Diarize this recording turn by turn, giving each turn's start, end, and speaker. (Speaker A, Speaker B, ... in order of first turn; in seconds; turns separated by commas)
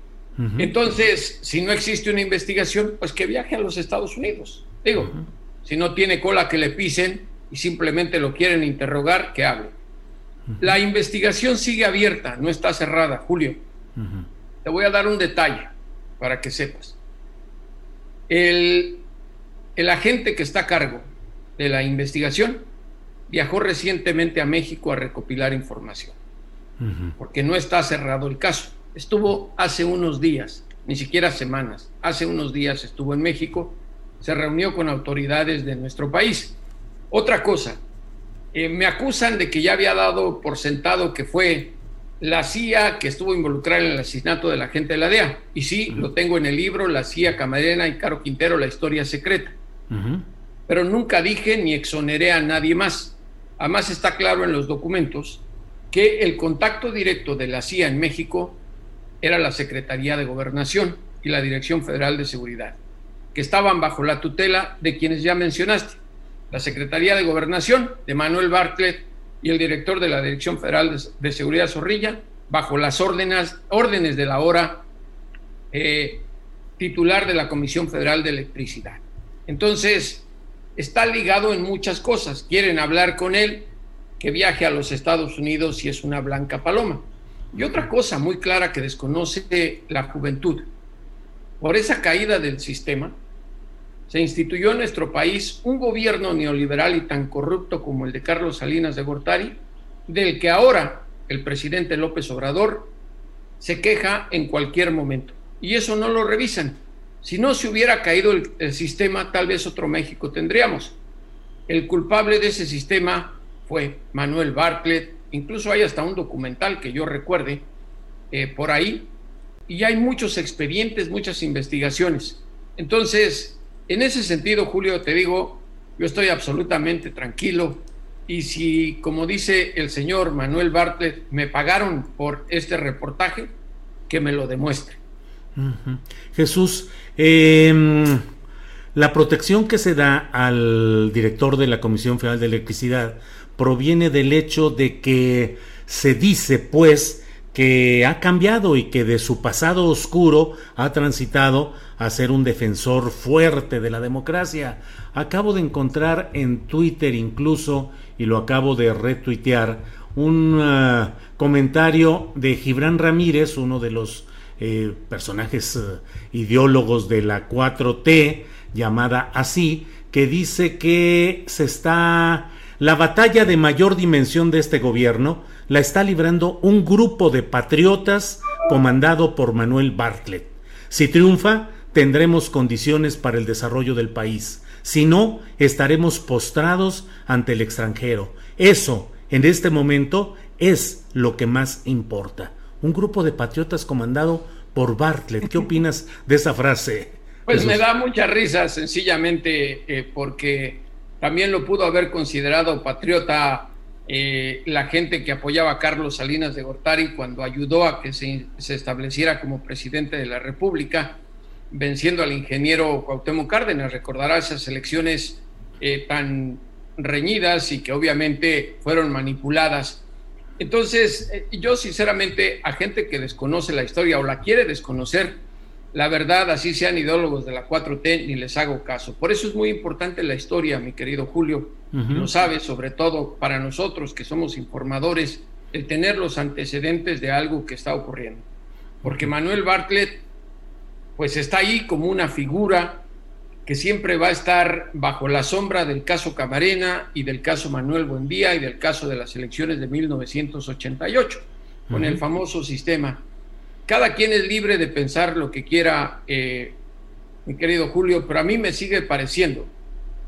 Speaker A: 0.4-0.7, Speaker B: 0.6-5.1, Speaker A: 5.0-5.3, Speaker B: 5.7-9.8, Speaker A: 10.5-10.8, Speaker B: 10.6-13.6, Speaker A: 14.0-14.3, Speaker B: 14.6-17.0, Speaker B: 18.3-19.0, Speaker B: 19.8-22.7, Speaker B: 23.3-26.2, Speaker A: 26.8-27.1, Speaker B: 27.2-36.6, Speaker B: 37.1-37.8, Speaker B: 38.5-49.6, Speaker A: 49.9-50.3, Speaker B: 50.7-58.6, Speaker B: 59.2-62.8, Speaker B: 63.3-74.9, Speaker B: 75.7-76.3, Speaker B: 76.8-83.7, Speaker B: 84.2-90.7, Speaker A: 87.5-87.8, Speaker B: 91.6-93.2, Speaker B: 94.1-102.9, Speaker B: 103.6-111.0, Speaker B: 111.7-117.7, Speaker B: 118.3-119.1, Speaker B: 119.7-133.5, Speaker B: 134.1-135.0, Speaker A: 135.6-138.2, Speaker A: 138.9-197.8, Speaker B: 197.5-211.2, Speaker B: 211.7-220.0, Speaker B: 220.6-225.4, Speaker B: 225.9-238.4, Speaker A: 231.9-232.3, Speaker A: 239.0-239.3, Speaker B: 239.0-240.2, Speaker B: 241.2-243.0, Speaker B: 243.7-253.2, Speaker A: 251.9-252.2, Speaker B: 253.9-256.8, Speaker B: 257.5-259.7